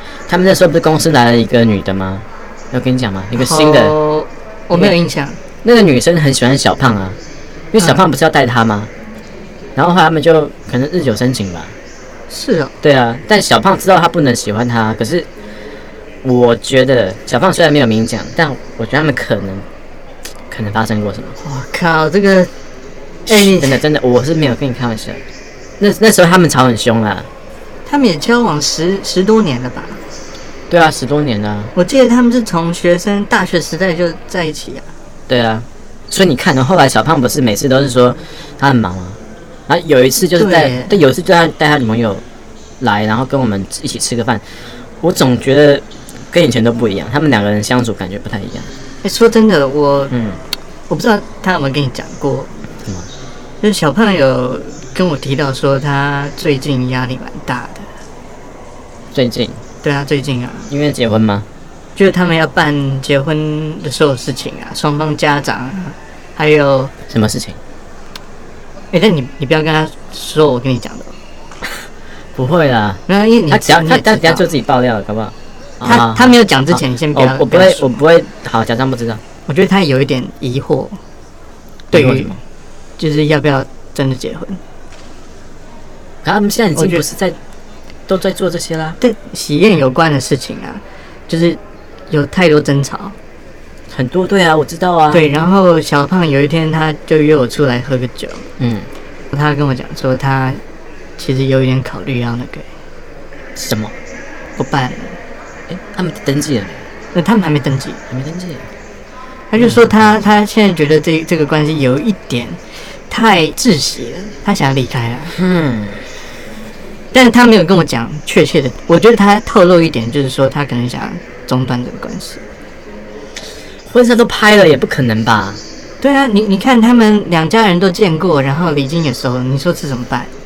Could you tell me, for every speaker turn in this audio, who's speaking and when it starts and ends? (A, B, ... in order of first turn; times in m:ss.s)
0:00.3-0:04.0 A
0:03.4-0:05.4 B
0:05.6-0:07.2 A
0:07.7-0:08.9 A
0:09.8-0:11.7 A
0:12.3-0:12.7 B
0:12.8-0:15.3 A
0:16.2-0:19.6 A
0:20.5-0:21.4 A
0:21.4-0:22.5 B
0:23.3-0:25.2 A
0:23.3-0:23.8 B
0:25.8-0:27.3 A
0:27.8-0:30.0 B
0:30.7-0:31.7 A
0:31.7-0:34.9 B
0:35.3-0:42.2 A
0:40.4-0:40.9 B
0:42.8-0:48.7 A
0:49.0-0:50.1 B
0:50.1-0:50.4 A
0:50.9-0:52.5 B
0:52.8-0:53.1 A
0:53.6-0:57.9 B
0:59.1-0:59.6 A
0:59.8-1:00.7 B
1:00.7-1:01.4 A
1:02.0-1:06.9 B
1:07.1-1:07.6 A
1:08.9-1:11.2 B
1:12.4-1:19.2 A
1:13.1-1:14.4 B
1:15.8-1:17.9 B
1:19.5-1:21.0 B
1:21.9-1:22.4 B
1:21.9-1:22.4 A
1:23.0-1:24.6 B
1:26.2-1:27.4 A
1:26.7-1:27.0 B
1:28.1-1:29.0 A
1:29.0-1:31.6 B
1:32.1-1:33.1 B
1:33.9-1:35.2 A
1:35.1-1:38.4 B
1:38.6-1:38.9 A
1:39.3-1:40.6 B
1:41.2-1:42.7 B
1:43.6-1:44.0 A
1:44.6-1:45.2 B
1:45.7-1:46.8 A
1:47.1-1:48.0 B
1:48.1-1:48.7 A
1:49.5-1:55.3 B
1:49.6-1:50.1 A
1:55.3-1:56.0 A
1:57.1-2:02.4 B
2:03.9-2:05.6 A
2:06.0-2:10.3 B